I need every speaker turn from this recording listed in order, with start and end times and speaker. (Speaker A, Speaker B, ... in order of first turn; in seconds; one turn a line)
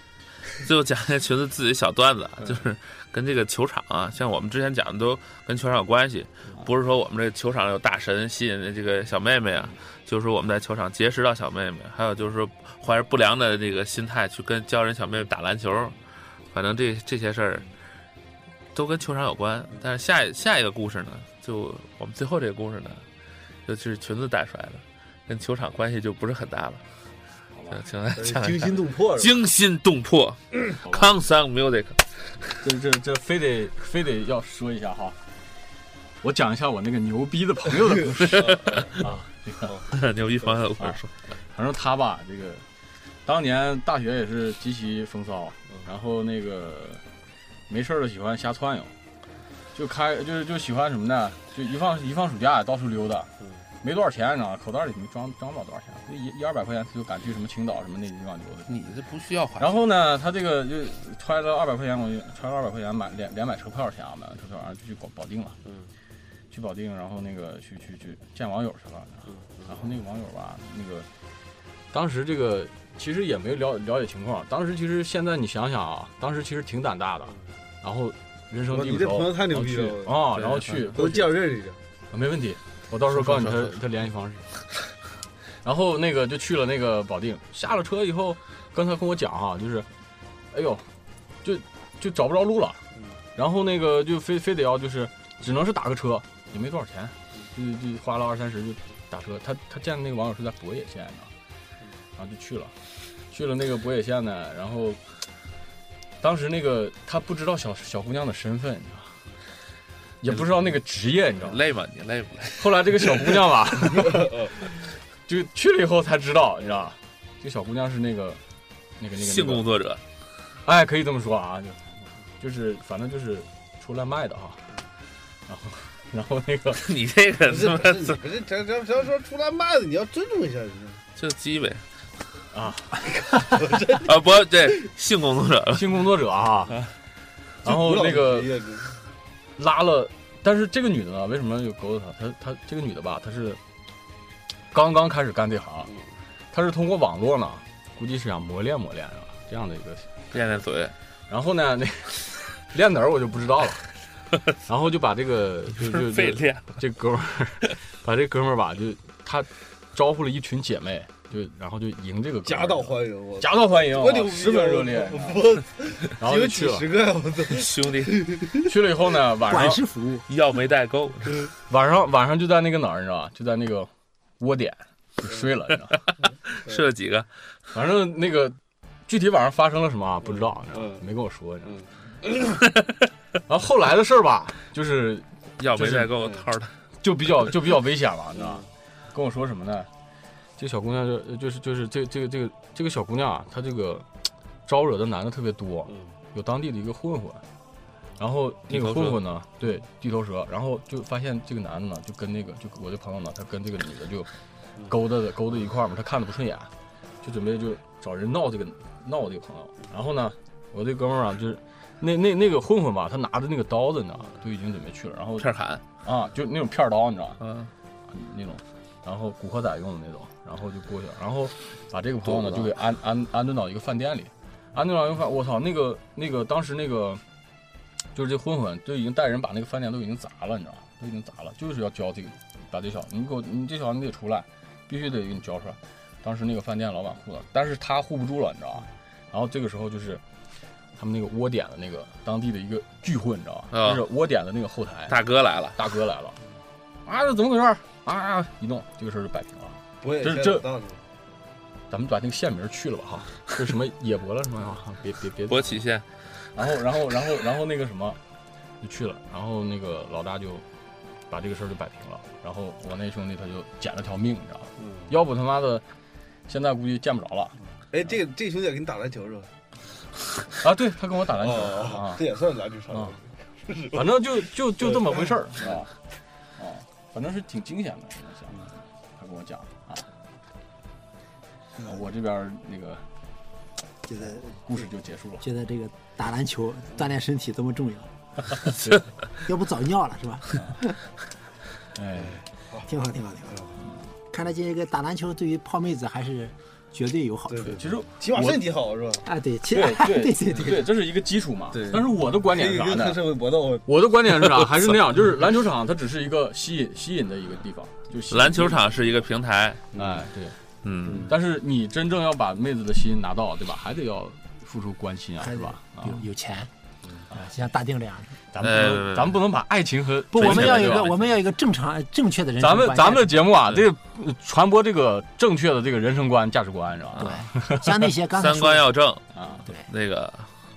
Speaker A: 0.6-16.0
Speaker B: 2.4-2.6
Speaker A: 16.5-17.7
Speaker A: 18.7-23.0
Speaker A: 23.6-26.8
Speaker B: 27.5-27.8
Speaker A: 27.7-32.5
Speaker C: 28.1-29.3
Speaker B: 30.8-31.1
Speaker B: 32.6-35.2
Speaker B: 36.2-39.7
Speaker A: 38.3-39.0
Speaker C: 38.5-39.0
Speaker A: 39.9-41.1
Speaker B: 41.5-42.6
Speaker B: 43.2-47.0
Speaker B: 47.7-48.9
Speaker B: 49.7-53.3
Speaker B: 53.8-58.9
Speaker A: 58.7-59.8
Speaker B: 59.6-65.6
Speaker B: 66.5-71.1
Speaker C: 69.5-69.8
Speaker B: 71.9-81.3
Speaker C: 78.7-81.8
Speaker B: 82.1-84.4
Speaker A: 83.1-83.7
Speaker B: 85.6-89.9
Speaker B: 90.5-90.9
Speaker B: 91.4-92.8
Speaker B: 93.3-101.3
Speaker B: 102.2-102.7
Speaker B: 103.3-105.0
Speaker B: 106.2-109.2
Speaker B: 110.2-111.6
Speaker A: 111.4-113.3
Speaker B: 112.6-118.4
Speaker C: 114.1-114.4
Speaker B: 119.0-119.7
Speaker A: 119.2-120.0
Speaker B: 120.6-124.6
Speaker B: 125.5-126.9
Speaker A: 126.8-128.2
Speaker C: 127.4-131.0
Speaker A: 131.2-131.8
Speaker B: 132.5-133.0
Speaker C: 133.3-134.2
Speaker A: 133.9-136.0
Speaker B: 135.7-136.8
Speaker B: 137.6-138.5
Speaker C: 137.6-138.9
Speaker B: 139.6-143.6
Speaker B: 144.7-145.9
Speaker B: 146.5-150.1
Speaker A: 150.3-150.9
Speaker B: 151.3-153.9
Speaker B: 154.6-165.6
Speaker A: 155.7-156.8
Speaker C: 162.4-168.7
Speaker B: 166.2-166.9
Speaker A: 167.5-168.3
Speaker B: 168.6-169.8
Speaker D: 169.5-170.2
Speaker A: 170.3-171.4
Speaker B: 171.7-176.0
Speaker A: 176.5-177.3
Speaker B: 177.7-181.7
Speaker C: 180.7-181.0
Speaker B: 183.5-186.1
Speaker A: 185.6-186.7
Speaker B: 187.0-189.9
Speaker B: 190.6-194.1
Speaker B: 194.7-197.4
Speaker B: 198.2-204.3
Speaker A: 198.7-199.2
Speaker B: 204.8-206.7
Speaker B: 207.2-217.4
Speaker A: 215.4-215.8
Speaker A: 217.4-217.7
Speaker B: 218.1-227.2
Speaker A: 222.2-222.7
Speaker B: 228.1-240.2
Speaker B: 240.9-245.2
Speaker A: 243.7-244.0
Speaker A: 245.1-245.9
Speaker B: 245.8-246.4
Speaker B: 247.0-250.7
Speaker C: 250.0-251.0
Speaker B: 251.9-255.8
Speaker A: 255.5-256.1
Speaker B: 256.5-258.2
Speaker B: 258.8-260.6
Speaker B: 261.3-265.8
Speaker B: 266.5-267.6
Speaker C: 267.9-269.5
Speaker B: 270.6-272.2
Speaker C: 271.4-274.1
Speaker B: 272.9-273.2
Speaker B: 273.9-275.9
Speaker B: 276.6-280.1
Speaker B: 281.8-283.0
Speaker D: 284.1-284.6
Speaker B: 284.6-285.4
Speaker D: 285.4-288.1
Speaker D: 289.4-290.9
Speaker B: 290.5-290.8
Speaker B: 291.9-292.4
Speaker D: 292.8-293.7
Speaker D: 294.3-297.8
Speaker C: 297.5-299.2
Speaker B: 297.8-298.6
Speaker D: 299.2-300.9
Speaker B: 299.7-303.2
Speaker C: 301.7-303.9
Speaker B: 303.9-308.9
Speaker A: 308.3-309.8
Speaker C: 309.9-310.2
Speaker B: 309.9-310.6
Speaker A: 310.8-311.3
Speaker C: 311.0-311.3
Speaker B: 311.1-316.2
Speaker D: 315.4-316.7
Speaker D: 317.4-318.4
Speaker B: 318.5-321.1
Speaker A: 318.6-319.4
Speaker D: 320.3-323.4
Speaker A: 320.4-321.2
Speaker B: 322.6-328.1
Speaker A: 327.1-327.4
Speaker D: 327.2-328.9
Speaker A: 328.3-330.5
Speaker B: 329.3-329.6